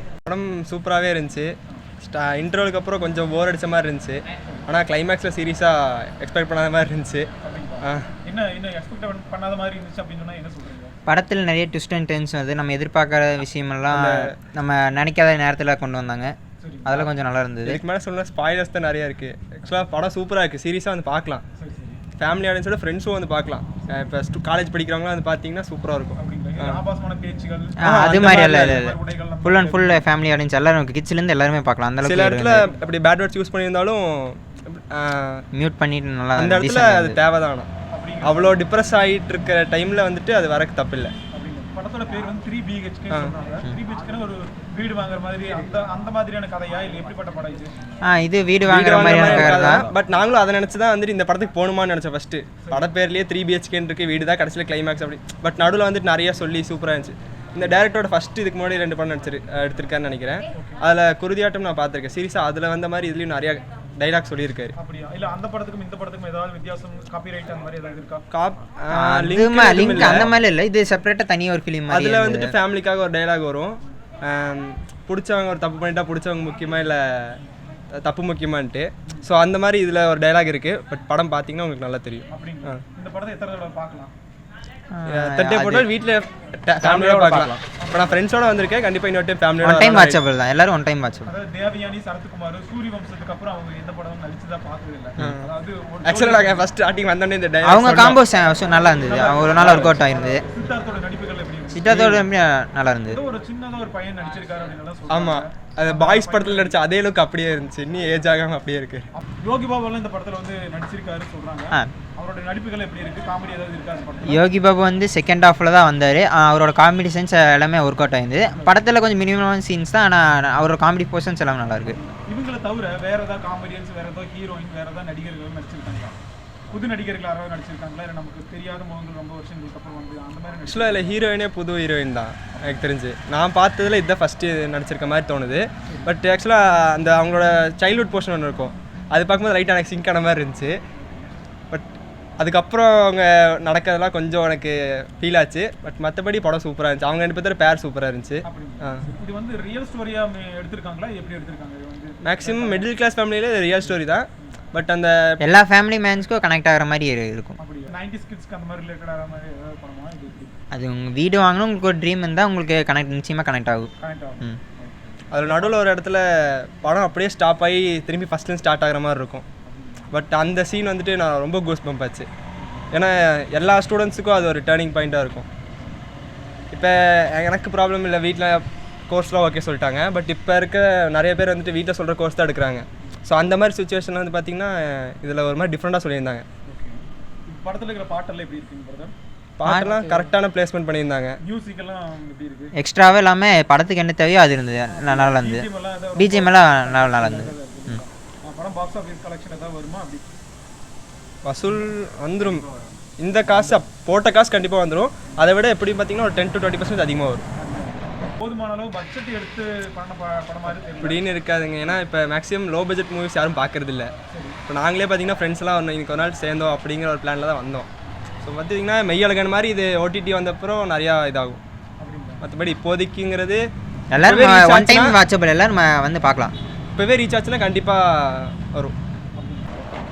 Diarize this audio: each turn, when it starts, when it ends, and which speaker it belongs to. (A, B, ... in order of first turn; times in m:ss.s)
0:00.2-0:07.3 A
0:07.4-0:10.9 B
0:11.1-0:16.3 C
0:13.9-0:14.3 A
0:16.6-0:17.1 B
0:16.8-0:17.8 C
0:17.6-0:21.4 A
0:21.6-0:22.0 B
0:22.2-0:26.8 A
0:26.2-0:30.0 B
0:27.8-0:32.7 C
0:27.8-0:28.7 A
0:32.0-0:35.4 A
0:35.5-0:37.2 C
0:36.4-0:37.7 A
0:37.9-0:38.6 B
0:38.2-0:41.1 A
0:41.3-0:47.9 B
0:48.0-0:49.9 C
0:48.6-1:04.7 A
1:04.8-1:08.2 B
1:08.3-1:10.3 A
1:08.9-1:12.5 C
1:11.9-1:17.4 A
1:17.9-1:22.8 A
1:22.3-1:24.1 B
1:24.9-1:25.9 C
1:25.1-1:30.2 A
1:26.8-1:28.2 B
1:29.6-1:31.3 C
1:31.2-1:36.7 B
1:35.2-1:35.5 A
1:36.0-1:38.2 A
1:37.6-1:40.4 C
1:39.0-1:42.1 B
1:39.6-1:40.0 A
1:41.7-1:43.2 C
1:41.9-1:42.2 A
1:43.1-1:46.8 B
1:45.1-1:49.1 A
1:49.2-1:54.4 B
1:54.2-2:02.0 C
1:58.5-1:58.9 B
2:02.0-2:06.2 B
2:06.7-2:11.2 B
2:10.7-2:20.7 A
2:12.5-2:12.9 B
2:15.9-2:16.1 B
2:21.7-2:29.0 A
2:28.4-2:32.9 B
2:32.2-2:35.4 A
2:35.4-2:37.6 C
2:37.6-2:40.6 B
2:40.7-2:43.9 C
2:44.0-2:45.8 B
2:45.3-2:49.4 A
2:49.6-2:50.1 B
2:50.1-2:52.3 A
2:52.9-2:55.5 A
2:56.7-3:06.4 A
3:06.7-3:09.1 B
3:09.6-3:11.4 A
3:09.6-3:10.3 C
3:11.4-3:12.7 B
3:12.8-3:18.0 C
3:14.9-3:20.2 B
3:21.4-3:22.6 A
3:23.2-3:27.4 A
3:27.6-3:31.2 B
3:30.9-3:34.1 A
3:34.3-3:34.6 B
3:34.7-3:37.9 A
3:38.4-3:41.6 A
3:42.0-3:42.4 B
3:42.4-3:43.6 A
3:44.1-3:46.5 C
3:44.2-3:45.2 A
3:47.0-3:48.9 A
3:49.4-3:49.9 B